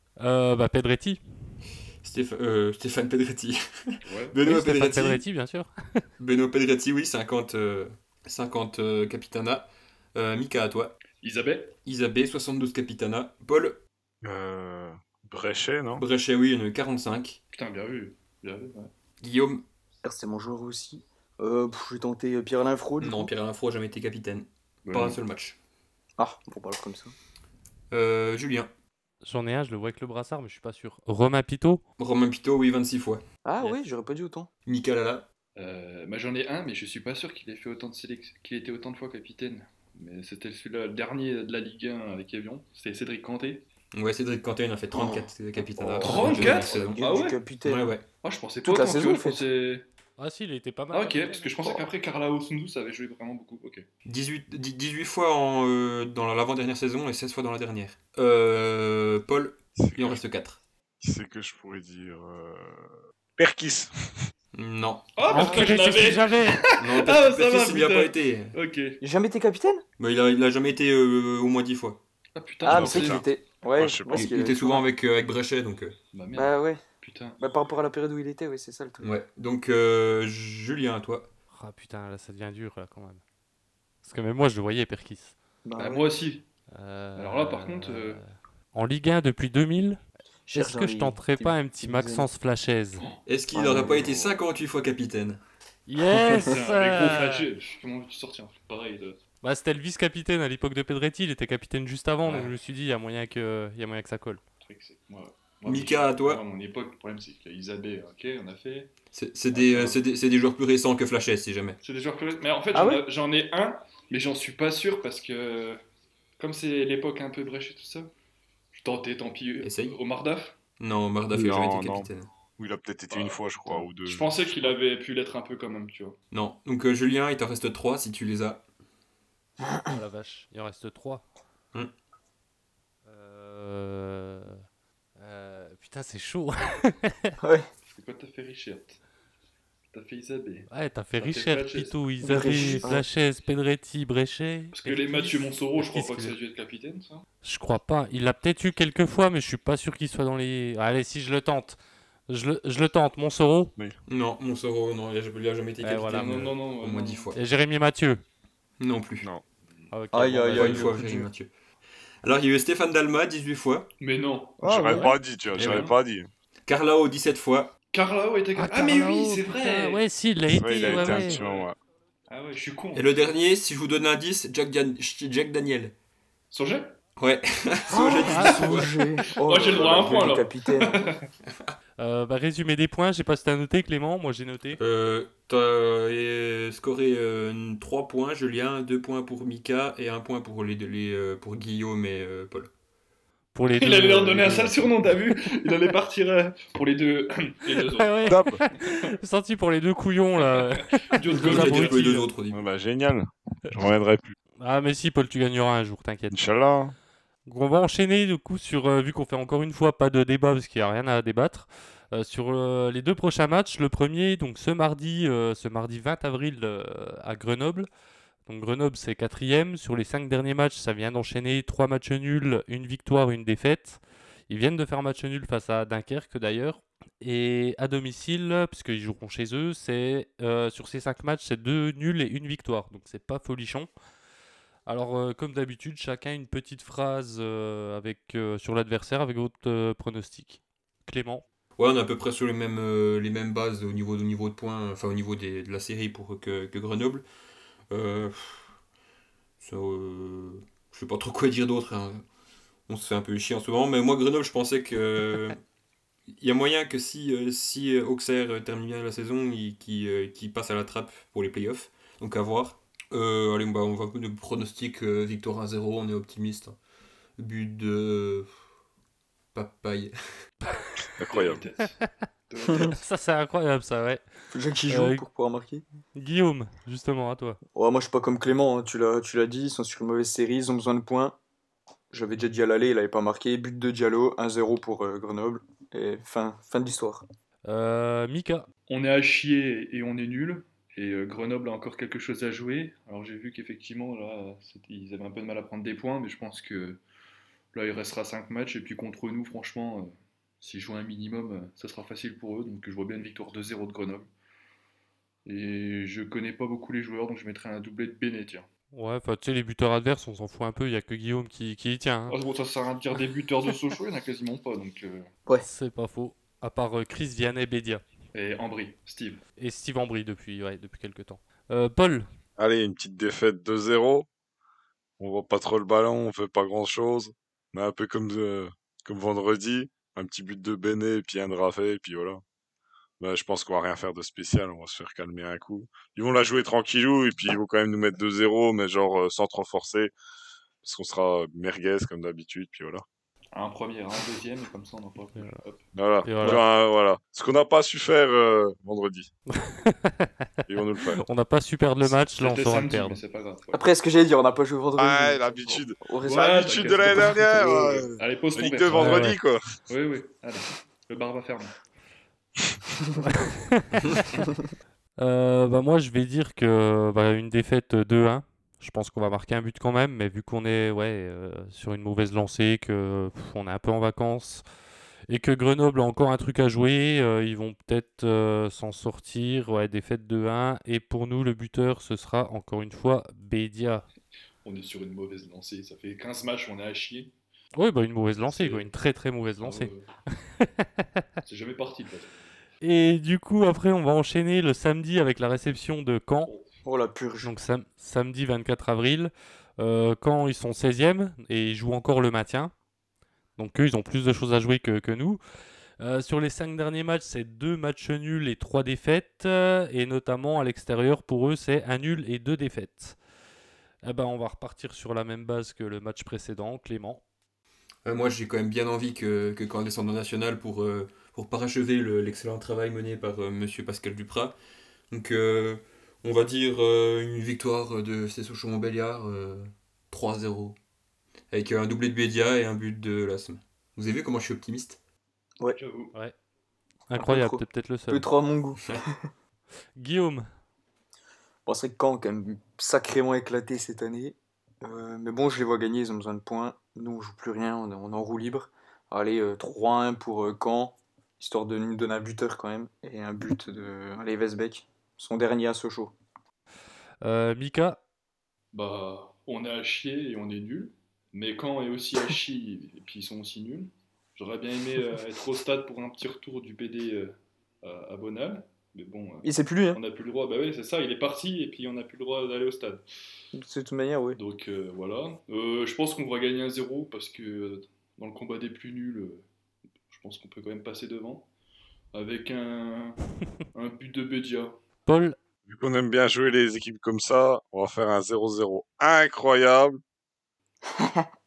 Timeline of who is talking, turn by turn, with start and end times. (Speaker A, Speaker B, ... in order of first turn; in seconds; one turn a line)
Speaker A: 0.2-1.2
Speaker B: 2.0-5.2
Speaker C: 4.1-4.3
Speaker A: 4.4-6.0
Speaker B: 6.2-11.0
Speaker C: 11.2-11.7
Speaker B: 11.8-13.8
Speaker D: 14.2-16.0
Speaker B: 16.0-17.4
Speaker C: 17.5-18.9
Speaker B: 19.2-19.6
Speaker E: 20.0-23.3
Speaker B: 23.0-25.6
Speaker E: 26.2-27.1
Speaker B: 27.9-28.7
Speaker A: 29.2-31.8
Speaker B: 32.0-33.2
Speaker E: 33.4-34.5
Speaker B: 34.6-35.3
Speaker C: 35.6-43.6
Speaker B: 43.9-47.0
Speaker E: 45.8-48.0
Speaker C: 46.0-47.4
Speaker B: 47.6-48.1
Speaker C: 48.2-49.9
Speaker E: 48.6-49.5
Speaker A: 50.2-51.8
Speaker C: 50.9-53.8
Speaker B: 54.0-60.6
Speaker D: 59.8-60.2
Speaker D: 61.0-64.3
Speaker B: 64.5-65.6
Speaker C: 65.2-68.9
Speaker A: 65.3-66.7
Speaker B: 66.8-68.5
Speaker E: 69.0-69.8
Speaker B: 70.0-72.0
Speaker C: 72.4-73.2
Speaker E: 72.6-74.8
Speaker D: 72.7-74.3
Speaker B: 74.1-76.0
Speaker C: 76.1-76.5
Speaker E: 76.3-76.8
Speaker C: 77.0-77.4
Speaker E: 77.4-79.1
Speaker B: 79.0-81.3
Speaker A: 81.5-83.2
Speaker A: 84.0-85.3
Speaker E: 85.6-86.0
Speaker C: 85.8-86.4
Speaker A: 86.7-88.2
Speaker C: 87.2-88.2
Speaker A: 88.7-90.0
Speaker E: 90.5-92.3
Speaker A: 90.5-93.0
Speaker B: 93.2-95.4
Speaker E: 93.5-94.3
Speaker A: 95.9-97.5
Speaker C: 96.5-99.2
Speaker A: 99.4-104.4
Speaker C: 104.7-108.9
Speaker B: 105.6-106.4
Speaker B: 109.1-111.8
Speaker C: 109.6-109.9
Speaker C: 111.8-115.8
Speaker E: 112.7-113.0
Speaker C: 116.4-118.1
Speaker C: 118.7-120.6
Speaker B: 119.6-120.0
Speaker B: 120.8-122.3
Speaker D: 121.3-124.4
Speaker C: 123.1-126.1
Speaker B: 126.3-128.6
Speaker E: 129.6-130.0
Speaker A: 129.9-131.2
Speaker A: 133.0-134.6
Speaker A: 135.2-137.3
Speaker E: 137.4-137.7
Speaker C: 138.0-139.0
Speaker C: 139.9-142.0
Speaker A: 140.7-146.3
Speaker E: 142.2-143.0
Speaker C: 144.7-147.2
Speaker A: 147.4-153.7
Speaker B: 154.1-157.3
Speaker A: 155.8-156.5
Speaker C: 156.2-157.2
Speaker A: 157.3-158.2
Speaker B: 158.8-159.3
Speaker A: 159.9-161.0
Speaker E: 160.1-161.3
Speaker B: 160.5-161.5
Speaker B: 162.2-163.9
Speaker C: 164.0-165.9
Speaker D: 164.6-166.3
Speaker E: 164.7-165.1
Speaker B: 165.5-165.9
Speaker B: 166.7-167.7
Speaker C: 167.9-169.9
Speaker A: 168.6-171.4
Speaker D: 170.5-171.8
Speaker C: 170.8-171.7
Speaker C: 172.3-173.0
Speaker B: 172.9-175.9
Speaker C: 176.5-176.9
Speaker B: 177.2-178.9
Speaker E: 177.9-180.9
Speaker A: 178.2-178.9
Speaker C: 179.4-180.4
Speaker A: 182.0-184.8
Speaker B: 184.8-192.7
Speaker A: 193.5-194.9
Speaker C: 193.8-198.2
Speaker A: 197.8-202.1
Speaker D: 198.2-198.6
Speaker C: 200.6-202.2
Speaker B: 201.3-202.6
Speaker D: 202.5-204.3
Speaker A: 204.6-206.4
Speaker D: 206.3-206.9
Speaker A: 207.4-217.9
Speaker A: 218.4-233.9
Speaker A: 234.9-241.4
Speaker B: 241.8-247.2
Speaker B: 247.9-248.7
Speaker B: 249.6-252.2
Speaker B: 252.9-255.6
Speaker B: 256.4-266.8
Speaker B: 267.4-268.5
Speaker B: 269.5-270.1
Speaker D: 271.2-271.6
Speaker C: 271.3-271.9
Speaker A: 272.8-274.2
Speaker E: 274.5-275.8
Speaker A: 274.9-275.2
Speaker A: 276.1-277.6
Speaker E: 277.7-281.4
Speaker E: 282.1-287.2
Speaker A: 287.7-288.7
Speaker C: 288.9-297.0
Speaker C: 297.7-300.1
Speaker C: 300.6-304.3
Speaker C: 305.4-308.7
Speaker A: 308.9-312.4
Speaker C: 312.3-315.2
Speaker A: 315.6-318.0
Speaker C: 318.3-319.4
Speaker A: 319.6-322.3
Speaker D: 322.6-324.3
Speaker D: 325.2-332.4
Speaker D: 333.2-340.1
Speaker D: 340.8-343.0
Speaker C: 343.5-345.8
Speaker D: 345.9-349.3
Speaker A: 346.2-346.6
Speaker A: 349.5-350.3
Speaker D: 350.7-351.2
Speaker A: 351.2-353.2
Speaker C: 352.4-353.7
Speaker E: 353.7-356.4
Speaker D: 355.0-359.9
Speaker C: 356.2-357.4
Speaker E: 357.3-358.1
Speaker C: 358.2-359.0
Speaker A: 358.9-359.4
Speaker C: 359.9-361.7
Speaker A: 363.2-364.4
Speaker A: 365.2-374.6
Speaker A: 375.3-384.1
Speaker C: 384.6-387.3
Speaker A: 387.7-389.9
Speaker C: 388.6-388.8
Speaker C: 389.6-390.0
Speaker A: 390.6-390.8
Speaker C: 391.4-392.4
Speaker A: 392.8-396.5
Speaker E: 396.8-397.5
Speaker A: 397.4-402.7
Speaker A: 403.6-405.4
Speaker A: 406.0-413.2
Speaker A: 414.0-417.2
Speaker B: 418.0-424.6
Speaker B: 425.1-430.8
Speaker B: 431.5-435.0
Speaker C: 435.7-436.1
Speaker A: 437.1-438.3
Speaker E: 437.1-439.2
Speaker A: 439.9-440.4
Speaker E: 441.6-456.1
Speaker A: 457.2-458.0
Speaker C: 458.7-473.0
Speaker E: 469.4-470.0
Speaker E: 473.5-474.4
Speaker C: 474.4-479.4
Speaker C: 480.1-481.5
Speaker C: 482.1-483.2
Speaker C: 483.7-484.8
Speaker A: 485.1-485.4
Speaker D: 485.7-490.0
Speaker E: 491.0-491.2